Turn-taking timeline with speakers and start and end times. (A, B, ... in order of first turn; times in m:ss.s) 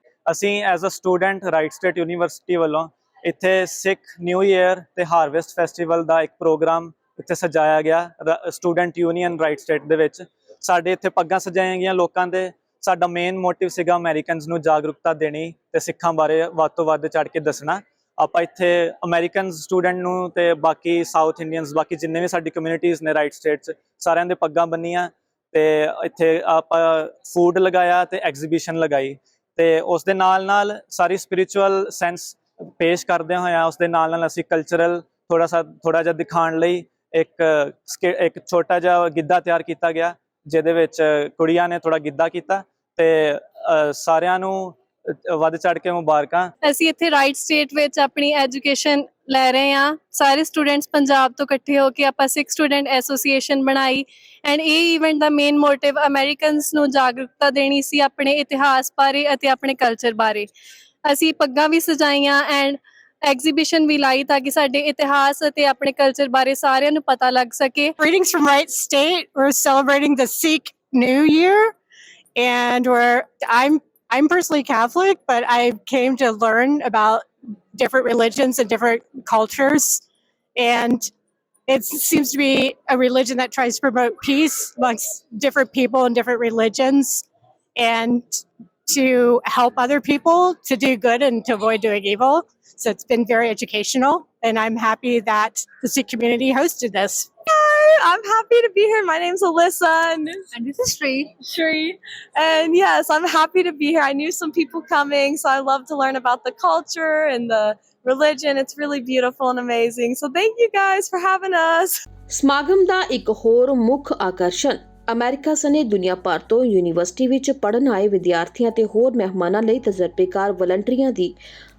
0:00.3-0:44.8 A
0:45.3-0:46.5 A
0:46.6-1:00.5 B
1:01.0-1:07.9 B
1:08.0-1:11.7 C
1:12.4-1:20.0 C
1:20.6-1:21.1 C
1:21.7-1:27.2 C
1:27.8-1:37.3 C
1:37.4-1:40.6 D
1:40.5-1:41.3 B
1:41.3-1:52.0 D
1:52.3-2:01.3 E